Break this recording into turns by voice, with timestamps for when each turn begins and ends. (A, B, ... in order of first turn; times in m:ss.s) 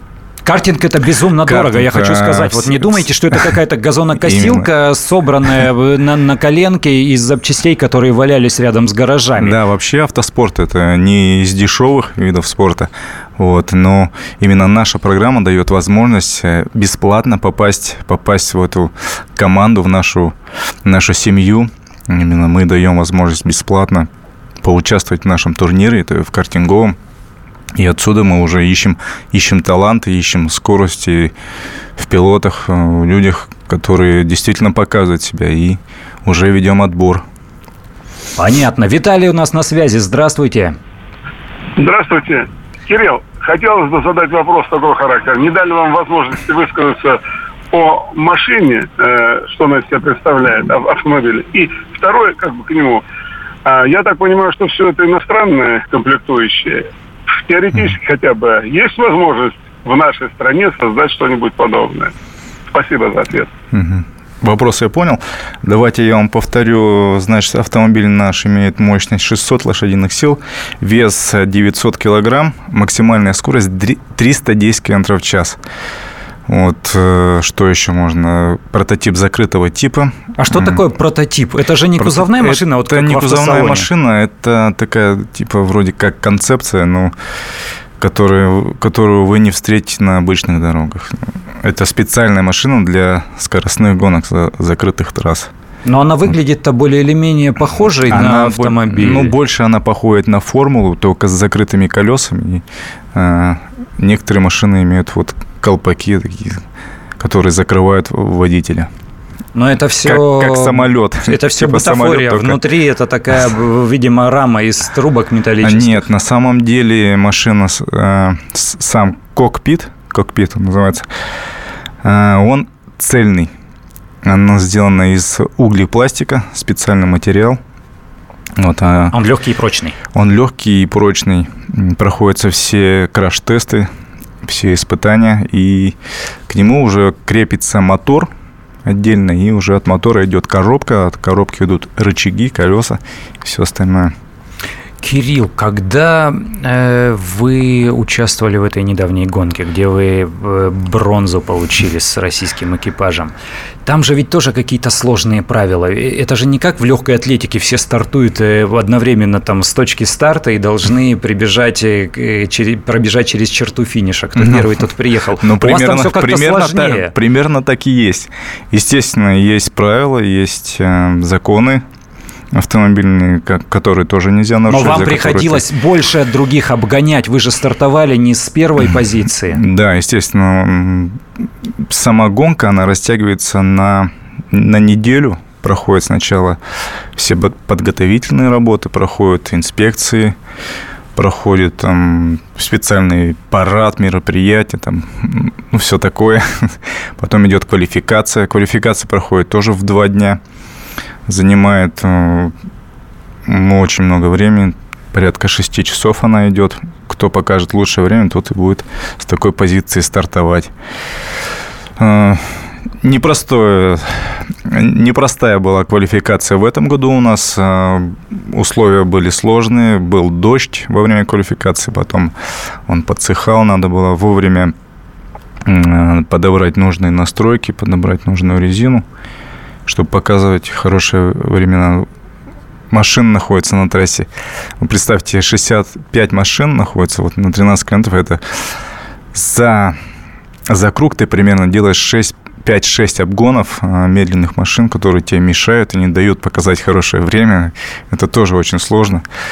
0:00.5-0:09.6 A
0:01.4-0:03.6 B
0:04.2-0:04.7 B
0:09.4-0:24.1 B
0:24.6-0:27.0 B
0:27.8-0:31.3 B
0:32.0-0:37.2 B
0:38.4-0:40.8 A
0:41.8-0:47.2 C
0:47.7-0:53.0 C
0:53.6-1:02.1 C
1:02.7-1:03.5 C
1:03.7-1:15.6 B
1:16.5-1:20.8 B
1:20.4-1:23.9 A
1:22.0-1:27.1 B
1:28.0-1:35.5 B
1:35.8-1:39.4 A
1:38.1-1:46.6 B
1:47.2-1:48.9 B
1:49.6-1:56.1 A
1:50.0-1:52.6 B
1:55.6-2:01.1 B
2:02.0-2:03.5 B
2:04.2-2:07.6 B
2:08.6-2:09.2 B
2:09.1-2:10.0 A
2:10.1-2:13.9 B
2:14.4-2:16.0 B
2:16.5-2:18.3 B
2:18.8-2:24.1 B
2:25.0-2:33.3 A
2:33.8-2:47.1 A
2:44.4-2:44.9 B
2:45.4-2:51.8 B
2:52.5-2:55.6 B
2:54.7-2:59.6 A
2:59.5-3:01.2 B
3:01.8-3:06.6 B
3:07.2-3:10.4 B
3:11.2-3:20.4 B
3:21.3-3:22.6 B
3:23.5-3:30.7 B
3:32.0-3:42.3 B
3:42.9-3:44.7 B
3:45.6-3:49.0 B
3:49.9-3:52.1 B
3:52.9-3:54.3 B
3:54.8-3:58.7 B
3:59.3-4:00.0 B
4:00.7-4:09.2 B